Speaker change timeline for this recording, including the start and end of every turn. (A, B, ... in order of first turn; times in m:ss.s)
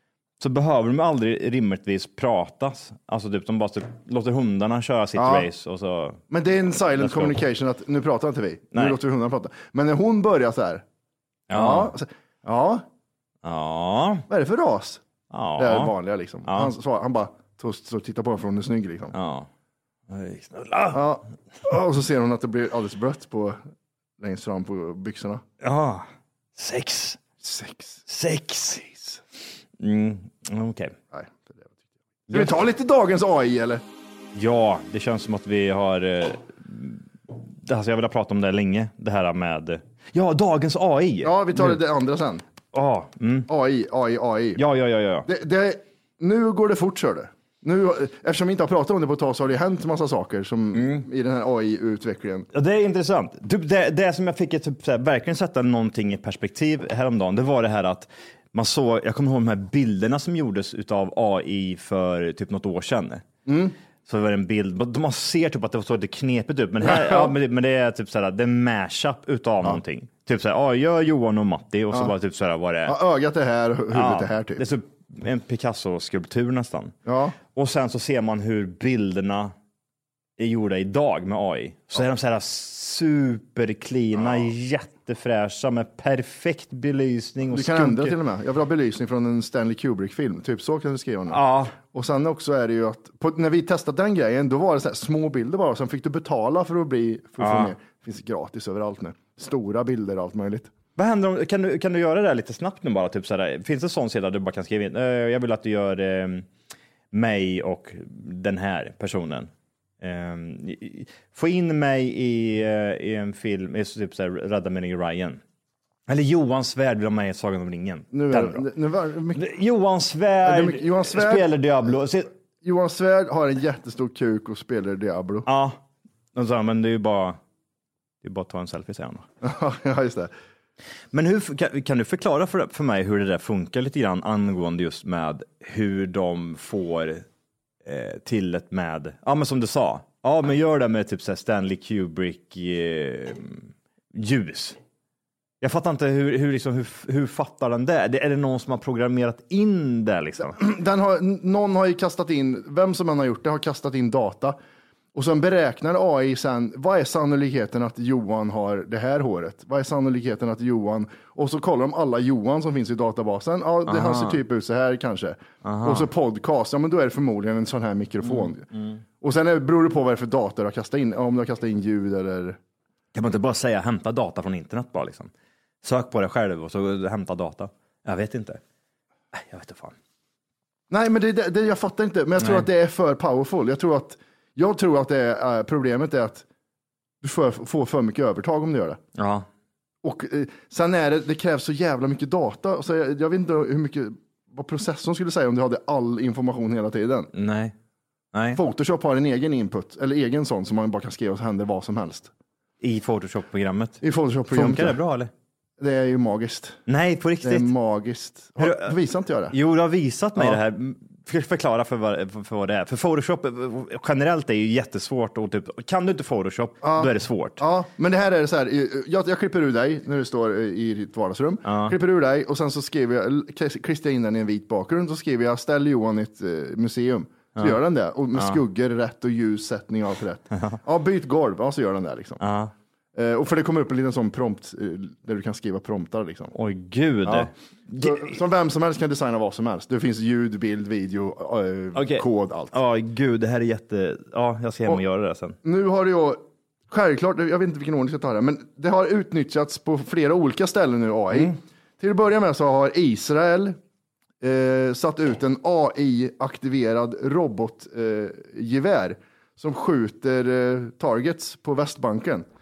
0:00.4-0:06.2 A
0:05.2-0:05.5 B
0:06.3-0:10.8 B
0:07.0-0:07.4 A
0:08.7-0:09.0 A
0:11.5-0:11.9 A
0:11.5-0:12.8 B
0:13.4-0:14.2 A
0:14.3-0:15.0 B
0:15.3-0:15.9 A
0:15.6-0:19.1 B
0:16.4-0:16.7 A
0:19.1-0:19.5 A
0:20.1-0:21.0 A
0:20.9-0:23.6 B
0:24.2-0:25.4 B
0:25.6-0:27.2 A
0:27.4-0:28.0 B
0:28.1-0:29.0 A
0:29.8-0:31.0 A
0:31.1-0:31.7 B
0:32.3-0:32.6 A
0:32.3-0:33.8 B
0:34.3-0:41.8 A
0:41.2-0:42.4 B
0:42.7-0:43.5 A
0:43.5-0:44.6 B
0:44.6-0:45.3 A
0:45.2-0:52.5 B
0:50.7-0:51.0 A
0:52.5-1:03.2 A
1:03.5-1:03.7 B
1:04.0-1:13.0 A
1:06.8-1:07.3 B
1:12.8-1:14.6 B
1:13.9-1:17.0 A
1:17.0-1:17.4 B
1:17.5-1:19.5 A
1:20.4-1:28.2 A
1:27.5-1:40.7 B
1:31.3-1:31.7 A
1:37.4-1:37.7 A
1:41.0-1:46.5 A
1:47.1-1:49.5 A
1:50.0-1:55.4 A
1:56.1-1:58.7 A
1:58.1-1:59.4 B
1:59.3-2:02.3 A
2:00.4-2:01.5 B
2:02.6-2:05.5 B
2:05.4-2:05.8 A
2:06.3-2:07.4 A
2:08.2-2:09.3 A
2:09.4-2:10.3 B
2:11.1-2:17.2 A
2:17.8-2:24.8 A
2:25.6-2:30.6 A
2:30.4-2:34.6 B
2:35.1-2:48.6 B
2:43.8-2:44.4 A
2:45.6-2:46.1 A
2:48.2-2:49.0 A
2:49.2-2:52.6 B
2:53.1-2:55.3 A
2:55.8-2:58.6 A
2:59.3-2:59.9 A
3:00.9-3:06.4 B
3:02.4-3:02.7 A
3:07.2-3:09.0 B
3:09.2-3:09.5 A
3:10.0-3:17.3 B
3:17.3-3:17.7 A
3:18.3-3:18.6 A
3:18.5-3:22.3 B
3:22.8-3:25.3 A
3:24.0-3:25.0 B
3:25.8-3:26.8 B
3:26.9-3:27.7 A
3:27.4-3:29.5 B
3:28.6-3:29.0 A
3:29.5-3:37.6 A
3:36.8-3:52.4 B
3:41.6-3:41.9 A
3:48.3-3:48.6 A
3:50.5-3:50.8 A
3:52.4-3:52.7 A
3:53.1-3:56.5 B
3:56.5-3:58.4 A
3:57.2-4:02.7 B
4:01.9-4:05.6 A
4:05.6-4:13.8 B
4:14.4-4:22.4 B